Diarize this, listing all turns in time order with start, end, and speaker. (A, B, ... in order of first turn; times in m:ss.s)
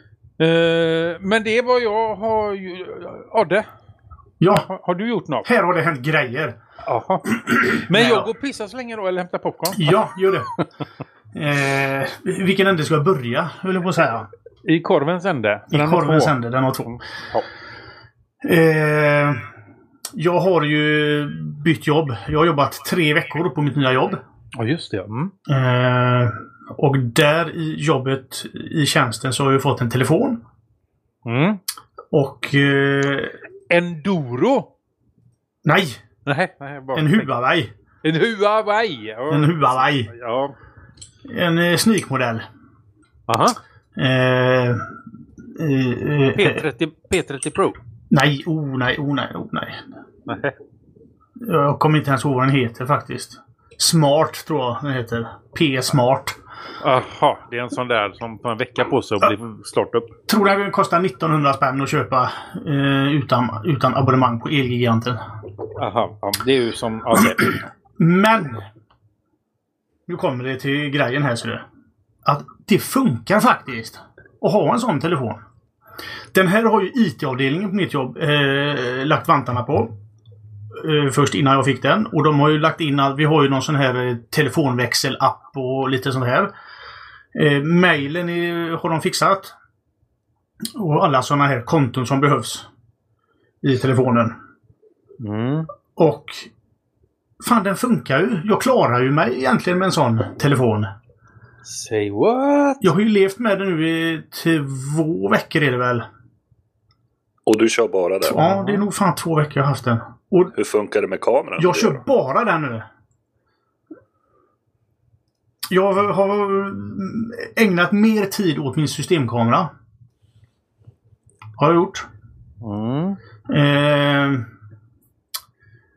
0:00.4-0:03.7 A
0:04.4-0:04.7 B
0:04.6-0:05.5 A
0:05.4-0:06.6 B
0:06.8-0:10.0 A
0:07.3-0:08.3 B
0:09.7-0:10.5 B
0:11.3-0:14.3 B
0:14.6-0:17.5 A
0:15.7-0:17.0 B
0:18.4-0:19.5 B
0:20.1-0:24.2 B
0:24.6-0:25.3 A
0:25.4-0:30.4 B
0:31.2-0:31.6 A
0:32.1-0:33.4 B
0:33.7-0:34.7 A
0:35.6-0:36.0 B
0:36.2-0:37.3 A
0:36.9-0:37.7 B
0:38.0-0:40.5 A
0:39.3-0:40.1 B
0:41.2-0:42.4 B
0:43.3-0:43.6 A
0:44.0-0:44.9 B
0:45.5-0:46.6 B
0:46.3-0:47.8 A
0:48.1-0:49.8 B
0:50.3-0:50.6 A
0:51.4-0:56.4 B
0:56.8-1:00.1 A
1:00.3-1:05.2 B
1:05.8-1:07.6 A
1:08.0-1:08.7 B
1:10.1-1:11.6 B
1:12.2-1:15.4 B
1:16.3-1:19.9 B
1:20.7-1:26.5 B
1:27.3-1:29.5 B
1:30.7-1:32.7 B
1:33.6-1:34.3 B
1:35.2-1:35.7 A
1:36.0-1:36.5 B
1:37.4-1:40.9 B
1:41.6-1:42.9 A
1:42.8-1:46.0 B
1:47.4-1:48.4 C
1:48.2-1:50.5 B
1:48.4-1:48.8 A
1:50.5-1:52.0 C
1:51.6-1:52.9 B
1:55.7-1:59.7 B
2:01.6-2:02.0 B
2:02.6-2:03.2 A
2:03.5-2:04.5 B